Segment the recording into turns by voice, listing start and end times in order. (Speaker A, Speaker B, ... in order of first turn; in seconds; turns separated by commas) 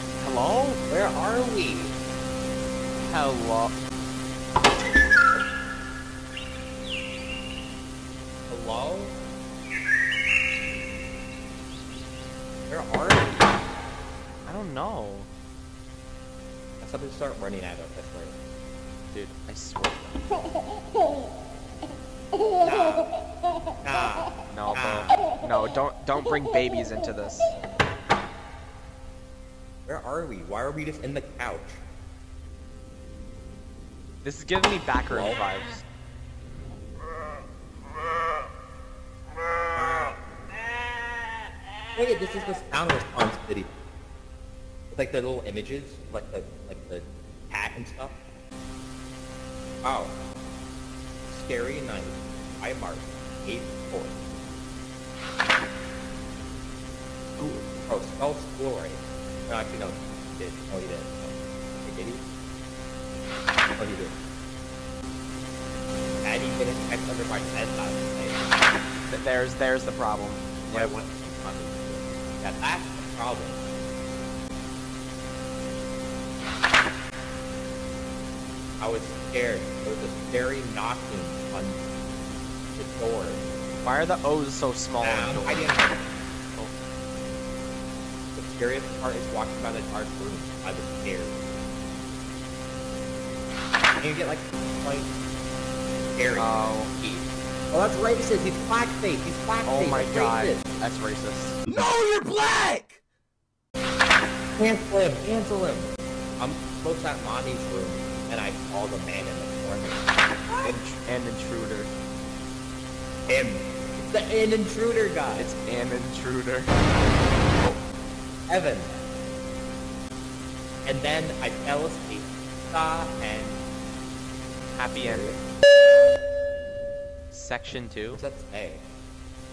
Speaker A: 0.2-0.8, Speaker B: 0.9-2.0, Speaker A: 3.0-3.7, Speaker B: 8.5-9.2, Speaker B: 12.7-13.5, Speaker A: 14.5-15.3, Speaker B: 16.8-18.4, Speaker A: 19.1-20.2, Speaker B: 22.6-23.1, Speaker B: 23.8-25.2, Speaker A: 24.5-27.5, Speaker B: 29.9-31.8, Speaker A: 34.2-35.8, Speaker B: 35.1-35.4, Speaker B: 39.8-40.1, Speaker B: 41.9-43.7, Speaker B: 44.9-48.2, Speaker B: 49.8-50.1, Speaker B: 51.3-54.2, Speaker A: 57.4-57.6, Speaker B: 57.9-62.2, Speaker B: 63.8-64.2, Speaker B: 66.2-68.5, Speaker A: 69.1-70.9, Speaker B: 70.7-73.6, Speaker B: 78.8-81.8, Speaker B: 82.8-83.5, Speaker A: 83.8-85.8, Speaker B: 85.0-86.2, Speaker B: 88.3-91.5, Speaker B: 94.0-95.1, Speaker B: 96.2-100.7, Speaker A: 96.4-96.9, Speaker A: 99.7-101.6, Speaker B: 101.8-103.0, Speaker B: 104.6-110.8, Speaker A: 110.6-111.9, Speaker B: 113.3-115.5, Speaker A: 115.4-117.0, Speaker B: 118.5-118.9, Speaker B: 120.8-123.6, Speaker A: 124.7-125.3, Speaker B: 124.9-125.4, Speaker A: 127.3-128.2, Speaker B: 128.1-128.8